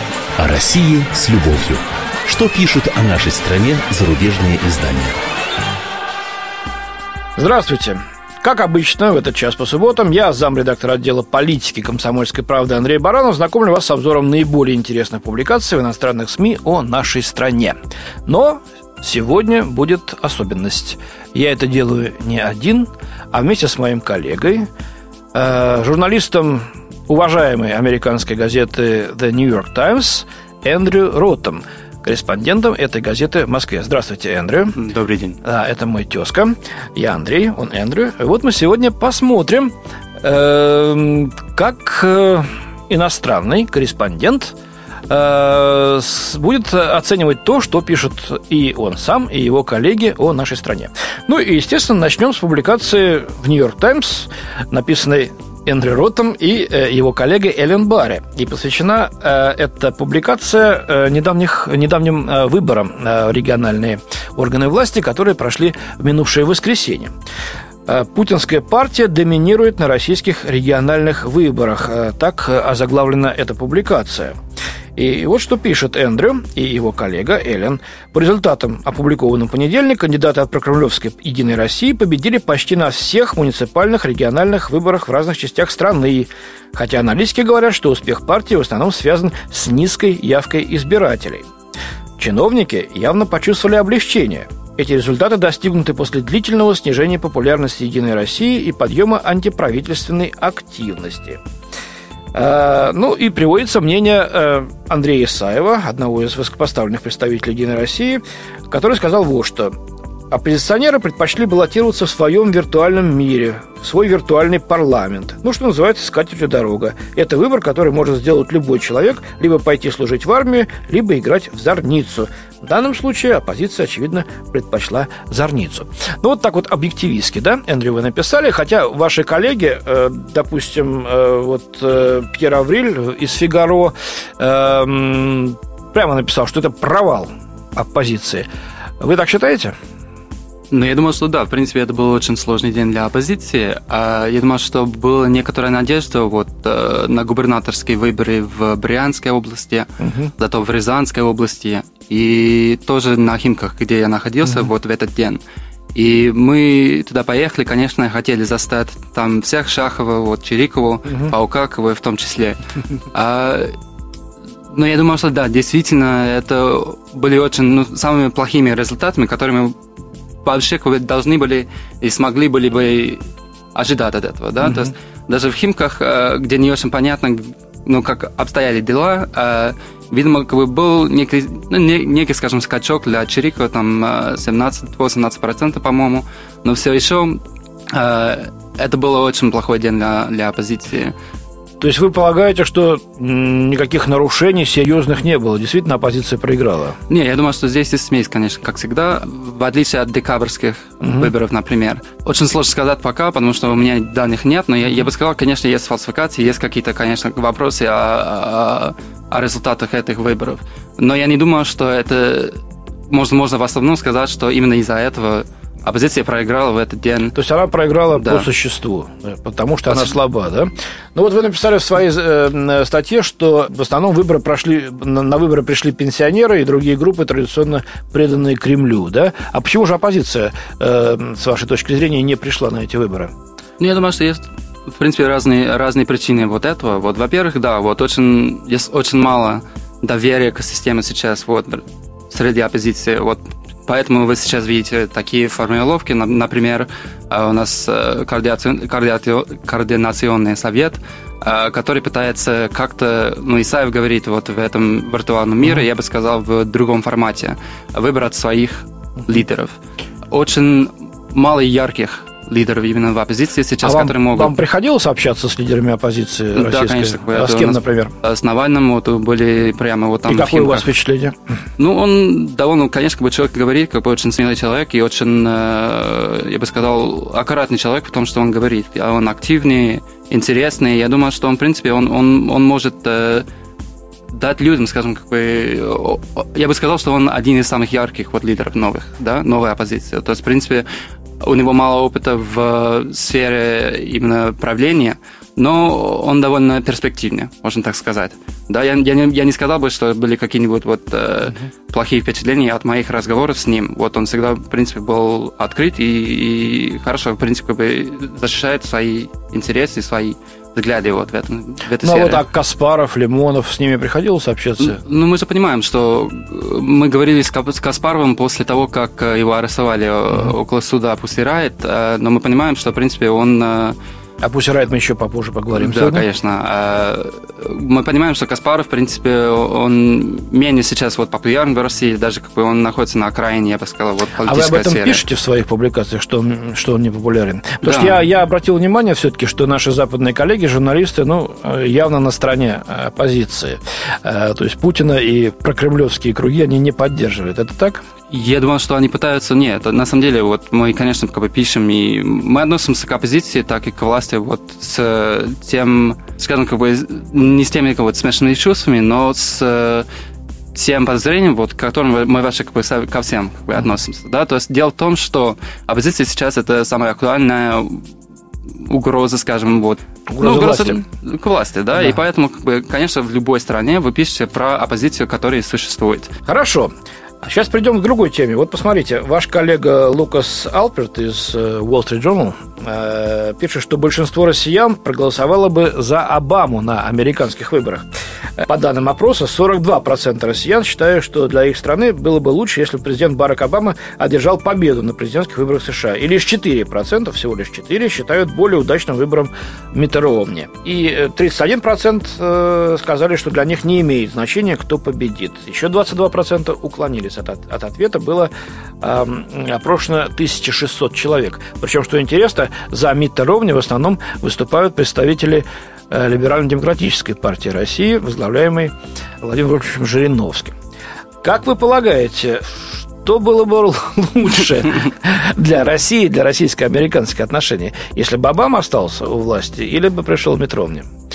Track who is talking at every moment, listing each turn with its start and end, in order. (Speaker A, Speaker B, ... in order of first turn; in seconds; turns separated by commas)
Speaker A: 0.4-5.2, Speaker B: 7.4-24.7, Speaker B: 25.3-34.8, Speaker C: 34.8-35.4, Speaker B: 35.4-44.5, Speaker B: 45.1-67.1, Speaker B: 67.8-74.3, Speaker B: 75.0-91.5, Speaker B: 92.2-101.4, Speaker B: 102.3-109.7, Speaker B: 110.3-138.5, Speaker B: 139.0-139.7, Speaker C: 140.7-155.4, Speaker B: 150.0-150.3, Speaker C: 155.9-162.6, Speaker B: 161.1-161.3, Speaker C: 163.1-163.7, Speaker C: 164.7-169.8, Speaker C: 170.4-173.2, Speaker C: 173.7-191.1, Speaker B: 174.6-174.9, Speaker B: 191.8-197.0, Speaker C: 197.1-217.3, Speaker B: 201.0-201.3, Speaker B: 217.3-233.3, Speaker C: 218.1-218.5, Speaker C: 219.9-220.2, Speaker C: 233.8-259.8, Speaker C: 260.3-264.6, Speaker B: 263.8-268.1, Speaker C: 266.6-270.9, Speaker B: 270.3-271.3, Speaker C: 271.8-283.4, Speaker C: 284.3-290.9, Speaker C: 291.4-312.4, Speaker B: 312.0-315.0, Speaker C: 314.8-323.9, Speaker B: 324.4-326.2, Speaker C: 325.7-335.2, Speaker B: 334.4-348.0, Speaker C: 337.8-338.2, Speaker C: 348.3-360.1, Speaker C: 360.7-368.1, Speaker C: 368.7-376.3, Speaker B: 370.3-371.0, Speaker B: 376.5-376.9, Speaker B: 377.4-388.1, Speaker B: 388.6-420.7, Speaker B: 421.4-431.1